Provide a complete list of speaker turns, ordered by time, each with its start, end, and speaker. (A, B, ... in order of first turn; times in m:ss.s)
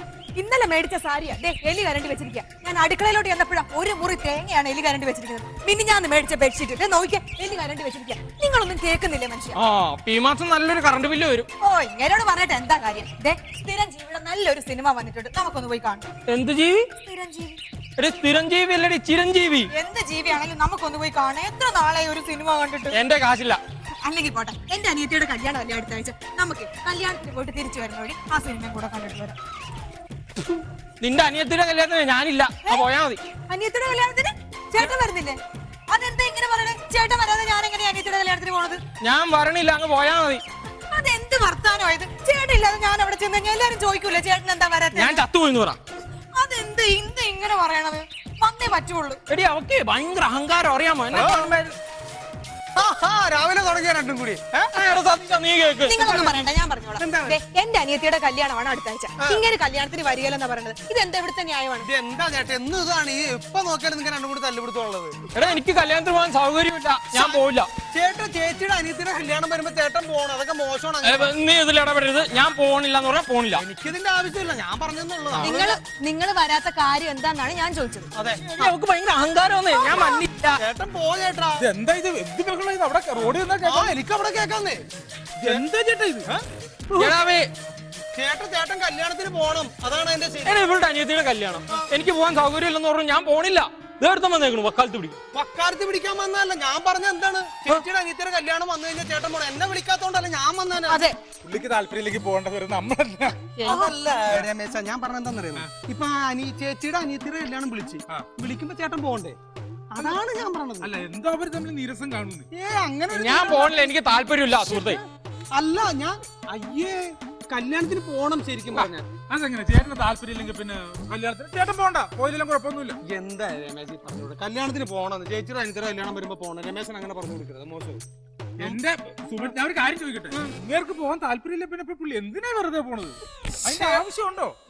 0:00.3-0:09.6 A
0:09.5-0:11.5 B
0:11.6-0:16.0 A
0:16.3-0:16.9 B
0:16.9-0:17.6 A
0:18.0-0:19.7 B
0:19.7-0:23.0 A
0:22.9-0:23.6 B
0:24.0-0:29.4 A
0:31.0-0:33.2 B
0:33.5-0:38.8 A
0:39.0-0:40.4 B
0:40.9-0:45.2 A
0:44.9-0:45.8 B
0:46.3-0:49.2 A
0:49.3-0:51.7 B
0:51.1-0:51.5 C
0:52.7-0:55.0 C
0:54.7-0:56.4 B
0:55.8-1:01.9 A
0:57.0-0:57.4 C
1:01.8-1:05.2 C
1:05.3-1:07.7 B
1:07.1-1:11.3 C
1:11.0-1:13.6 B
1:13.5-1:15.8 C
1:15.4-1:18.1 A
1:18.2-1:18.4 C
1:18.5-1:20.5 B
1:19.7-1:20.4 A
1:20.6-1:21.6 C
1:21.6-1:23.9 D
1:23.6-1:24.8 C
1:25.4-1:26.1 D
1:27.0-1:27.5 B
1:28.1-1:30.6 C
1:30.4-1:35.2 B
1:35.3-1:41.0 C
1:40.9-1:41.2 A
1:41.4-1:43.5 D
1:43.6-1:43.9 A
1:43.6-1:49.4 C
1:49.9-1:50.9 C
1:50.8-1:52.4 D
1:52.5-1:53.9 C
1:53.1-1:55.0 B
1:55.5-1:59.1 C
1:59.3-2:03.0 D
2:03.0-2:08.0 C
2:08.6-2:14.5 D
2:13.6-2:14.0 C